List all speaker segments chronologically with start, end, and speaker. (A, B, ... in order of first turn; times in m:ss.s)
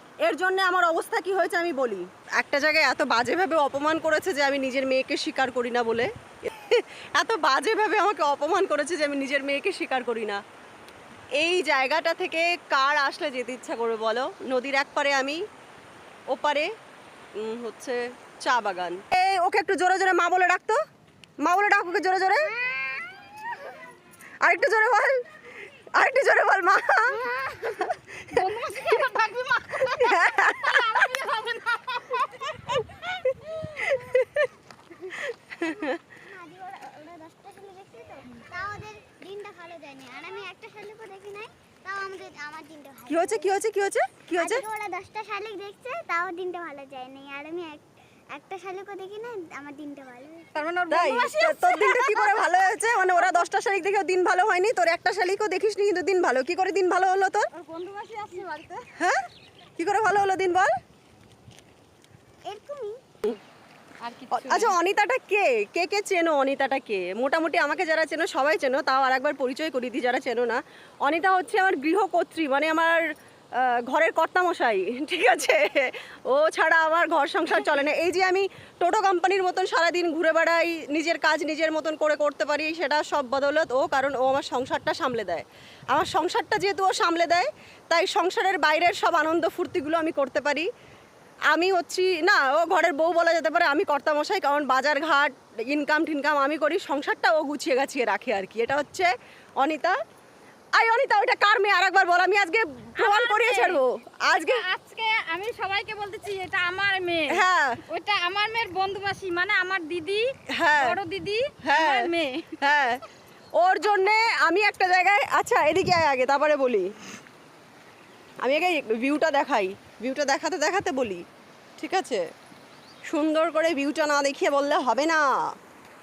0:00.3-0:10.4 A
0:11.4-0:15.4 A
0:16.3-0:16.7 A
0:17.4-0:20.8 A
0:21.4-0:22.5 A
0:22.5-0:23.1 B
0:24.4-0:25.2 A
0:25.9-0:27.2 A
0:27.1-0:27.9 B
0:27.8-0:28.4 A
0:28.2-0:32.3 C
0:29.8-0:31.1 A
0:33.0-0:34.5 A
0:35.1-0:36.0 A
0:35.6-0:43.6 B
0:43.1-0:44.6 A
0:44.4-0:50.5 B
0:50.5-0:52.6 C
0:50.9-0:57.5 A
0:57.5-0:58.9 C
0:59.0-0:59.2 A
0:59.8-1:00.7 A
1:02.4-1:03.0 B
1:04.0-1:04.8 C
1:04.3-1:13.0 A
1:13.5-1:30.7 A
1:31.5-1:39.1 A
1:39.6-1:40.0 A
1:40.8-1:44.7 A
1:43.0-1:52.6 C
1:47.3-1:47.8 A
1:50.5-1:51.0 A
1:51.6-1:53.0 A
1:53.6-1:56.9 A
1:58.4-2:01.2 A
2:01.8-2:02.3 A
2:03.1-2:05.5 A